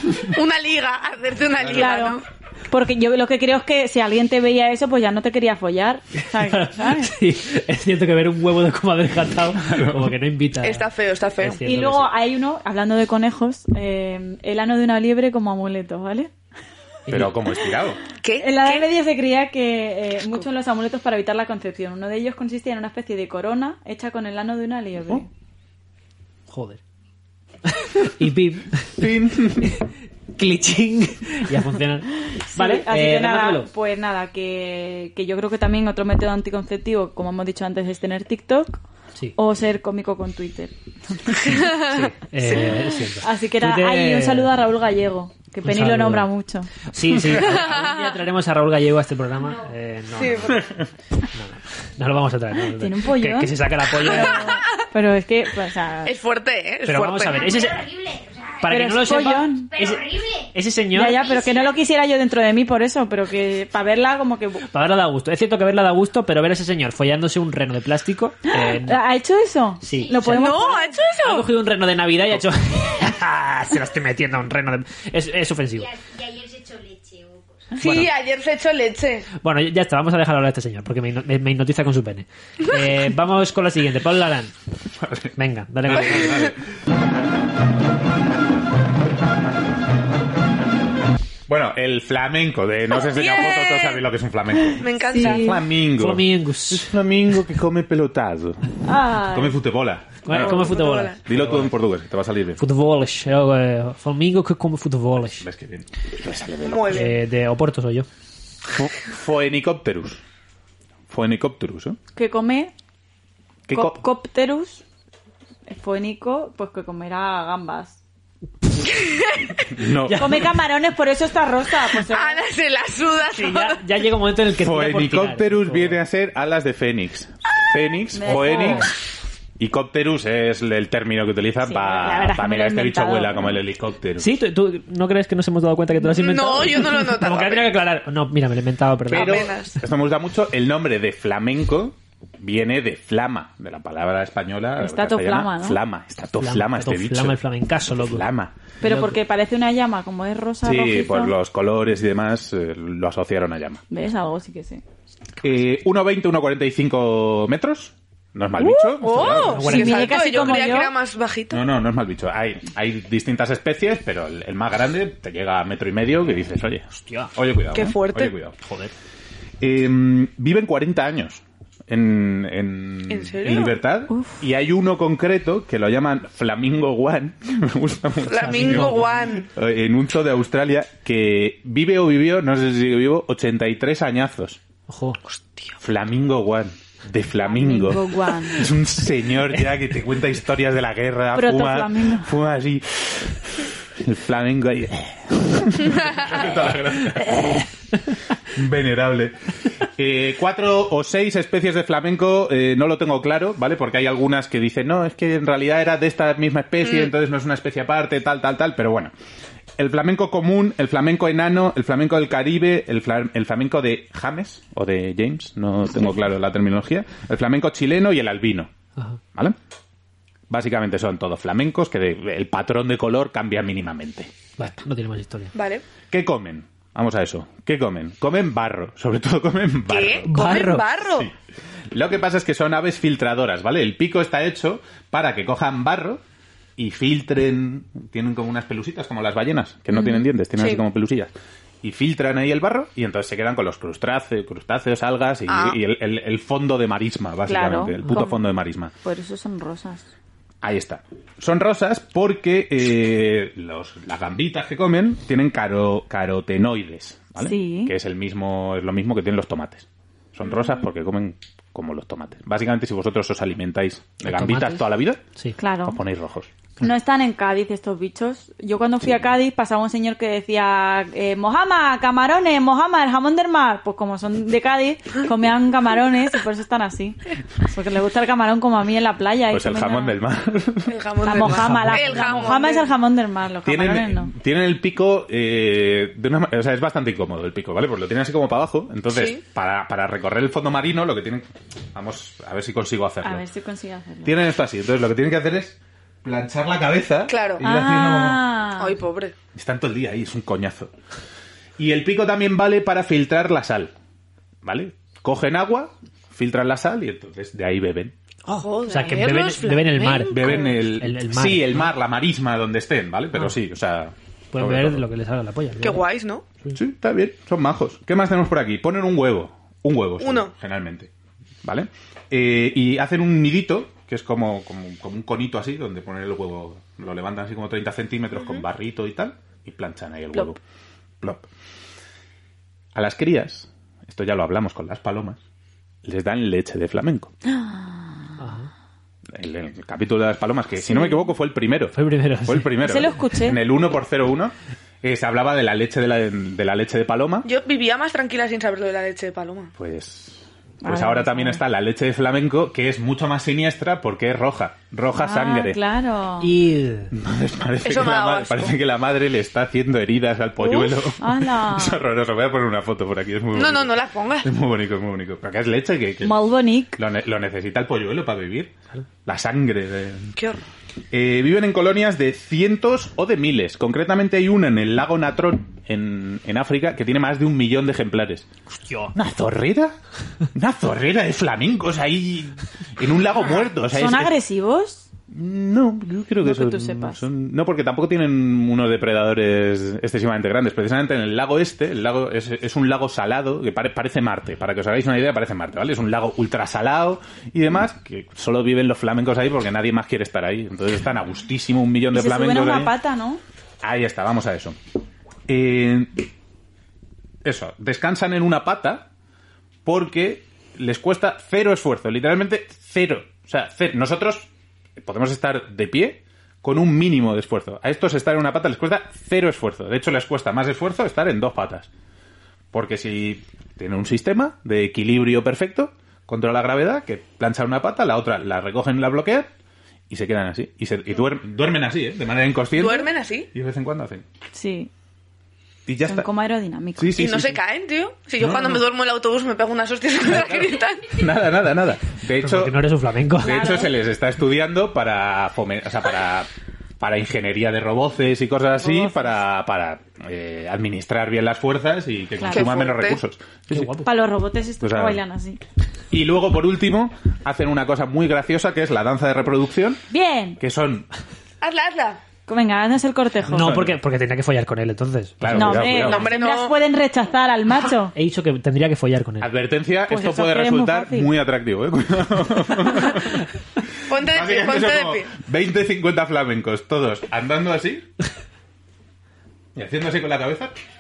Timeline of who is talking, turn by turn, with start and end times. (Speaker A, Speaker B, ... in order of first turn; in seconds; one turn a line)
Speaker A: 0.3-2.2
Speaker B: 1.6-1.9
Speaker C: 1.7-7.1
Speaker D: 6.3-10.9
Speaker B: 9.6-10.1
Speaker A: 10.6-11.6
Speaker D: 11.4-12.1
Speaker C: 11.6-16.3
Speaker D: 17.1-17.4
Speaker B: 17.1-18.0
Speaker A: 18.2-18.9
Speaker C: 18.4-25.3
Speaker D: 26.5-26.8
Speaker D: 27.7-29.1
Speaker B: 29.0-29.8
Speaker D: 29.6-33.7
Speaker C: 32.4-38.8
Speaker C: 39.4-41.8
Speaker A: 41.5-41.9
Speaker D: 41.5-44.5
Speaker C: 43.2-46.7
Speaker D: 45.6-46.3
Speaker D: 46.9-50.7
Speaker A: 47.4-48.0
Speaker E: 49.4-49.7
Speaker A: 50.2-50.6
Speaker D: 51.3-54.5
Speaker C: 52.8-56.1
Speaker A: 56.0-57.5
Speaker D: 56.9-57.9
Speaker E: 57.3-59.0
Speaker D: 58.6-61.2
Speaker C: 58.7-59.7
Speaker E: 59.7-60.5
Speaker C: 60.9-64.6
Speaker E: 61.1-61.8
Speaker D: 64.7-69.0
Speaker C: 68.6-71.0
Speaker D: 69.8-70.6
Speaker E: 69.9-70.3
Speaker A: 70.3-71.5
Speaker D: 71.2-75.9
Speaker E: 75.8-77.8
Speaker A: 77.8-79.3
Speaker D: 77.8-78.1
Speaker D: 79.4-84.5
Speaker B: 85.0-86.6
Speaker D: 85.4-86.5
Speaker A: 86.2-86.5
Speaker B: 91.5-102.6
Speaker A: 92.9-94.0
Speaker A: 94.8-95.6
Speaker C: 95.1-95.6
Speaker D: 96.0-97.0
Speaker C: 98.8-99.6
Speaker D: 100.2-101.7
Speaker A: 100.3-101.2
Speaker D: 102.6-105.4
Speaker B: 105.2-107.1
Speaker A: 106.7-107.2
Speaker D: 106.9-108.1
Speaker B: 108.7-110.2
Speaker B: 111.1-112.0
Speaker C: 112.2-112.7
Speaker B: 113.7-114.0
Speaker C: 113.7-114.8
Speaker C: 115.7-118.0
Speaker A: 118.9-119.7
Speaker B: 119.7-120.5
Speaker D: 120.0-120.5
Speaker C: 120.2-122.5
Speaker A: 121.9-123.8
Speaker D: 123.3-126.0
Speaker B: 124.6-128.9
Speaker C: 128.1-128.9
Speaker D: 128.3-128.9
Speaker B: 129.6-134.3
Speaker C: 131.6-133.6
Speaker D: 134.2-139.4
Speaker A: 136.2-137.7
Speaker B: 139.1-148.6
Speaker A: 139.1-139.8
Speaker C: 144.8-145.8
Speaker D: 146.4-148.3
Speaker C: 148.8-151.3
Speaker D: 148.8-149.2
Speaker B: 150.6-153.8
Speaker C: 153.9-154.8
Speaker B: 155.4-159.8
Speaker A: 158.7-161.6
Speaker D: 159.5-160.8
Speaker C: 159.7-160.9
Speaker B: 161.5-168.6
Speaker D: 167.1-167.3
Speaker A: 167.7-168.3
Speaker D: 168.6-168.9
Speaker B: 169.6-184.6
Speaker A: 173.1-173.8
Speaker C: 174.1-174.4
Speaker A: 178.3-179.5
Speaker D: 178.4-179.1
Speaker D: 184.9-185.2
Speaker A: 185.3-185.8
Speaker B: 185.8-197.7
Speaker C: 187.4-188.7
Speaker C: 191.3-192.3
Speaker D: 197.3-197.6
Speaker B: 198.5-209.1
Speaker B: 209.8-218.7
Speaker B: 220.5-224.3
Speaker D: 224.6-225.5
Speaker A: 225.5-225.8
Speaker B: 226.1-231.3
Speaker A: 229.9-231.3
Speaker D: 230.3-230.9
Speaker B: 231.9-236.2
Speaker B: 236.8-248.9
Speaker C: 239.9-240.2
Speaker A: 240.6-240.8
Speaker A: 245.5-245.8
Speaker C: 247.5-248.4
Speaker C: 249.0-250.1
Speaker B: 250.6-265.2
Speaker C: 257.4-257.9
Speaker D: 264.2-265.6
Speaker C: 265.6-266.0
Speaker B: 265.8-266.5
Speaker C: 266.8-280.2
Speaker B: 279.5-280.9
Speaker A: 280.9-282.9
Speaker C: 281.2-284.3
Speaker D: 281.4-282.6
Speaker B: 283.6-293.4
Speaker A: 289.1-289.4
Speaker C: 293.2-294.4
Speaker B: 294.2-298.4
Speaker A: 297.3-297.6
Speaker C: 297.6-299.0
Speaker A: 298.8-299.4
Speaker B: 299.5-300.9
Speaker B: 301.8-303.9
Speaker B: 304.6-308.1
Speaker A: 308.5-310.8
Speaker D: 308.5-311.9
Speaker B: 310.3-315.1
Speaker D: 314.5-316.0
Speaker A: 315.8-316.4
Speaker B: 316.8-321.1
Speaker A: 320.2-320.5
Speaker B: 321.6-330.6
Speaker B: 331.2-331.5
Speaker B: 332.9-335.4
Speaker B: 336.0-337.3
Speaker C: 337.5-338.4
Speaker D: 338.4-338.7
Speaker B: 339.3-347.5
Speaker C: 340.9-341.2
Speaker D: 341.9-342.7
Speaker C: 342.8-343.6
Speaker A: 347.4-349.7
Speaker B: 349.8-355.8
Speaker C: 350.8-351.6
Speaker C: 355.1-356.5
Speaker D: 356.4-357.1
Speaker B: 357.1-366.4
Speaker A: 357.8-358.8
Speaker C: 361.2-362.0
Speaker A: 363.5-364.5
Speaker C: 366.2-367.0
Speaker B: 367.0-368.7
Speaker B: 369.2-370.3
Speaker A: 370.4-370.6
Speaker B: 371.1-378.5
Speaker D: 378.9-379.1
Speaker B: 379.1-379.9
Speaker B: 380.5-384.4
Speaker C: 383.9-385.1
Speaker B: 385.3-403.0
Speaker C: 386.4-387.2
Speaker C: 402.1-403.4
Speaker B: 403.8-404.8
Speaker B: 405.5-406.2
Speaker B: 407.4-409.1
Speaker B: 409.9-421.9
Speaker B: 422.7-429.5
Speaker B: 430.1-434.2
Speaker A: 432.8-433.5
Speaker C: 434.5-434.9
Speaker B: 435.9-436.3
Speaker C: 436.1-437.2
Speaker B: 437.0-437.6
Speaker A: 437.2-441.2
Speaker B: 438.4-438.9
Speaker B: 440.2-442.8
Speaker D: 442.4-443.6
Speaker B: 443.4-446.5
Speaker C: 443.4-443.9
Speaker B: 447.0-454.0
Speaker C: 448.8-449.4
Speaker C: 452.4-452.7
Speaker A: 452.5-453.2
Speaker D: 453.7-454.1
Speaker C: 454.0-455.6
Speaker B: 454.8-455.2
Speaker B: 456.1-460.0
Speaker C: 460.1-460.6
Speaker B: 460.6-461.1
Speaker A: 461.6-462.2
Speaker C: 462.5-463.9
Speaker D: 463.5-465.9
Speaker B: 463.5-464.0
Speaker B: 465.4-466.3
Speaker C: 465.5-468.1
Speaker A: 465.9-466.8
Speaker D: 468.1-469.5
Speaker B: 469.4-473.5
Speaker C: 470.1-471.3
Speaker A: 474.1-475.3
Speaker B: 474.1-478.1
Speaker B: 479.8-480.8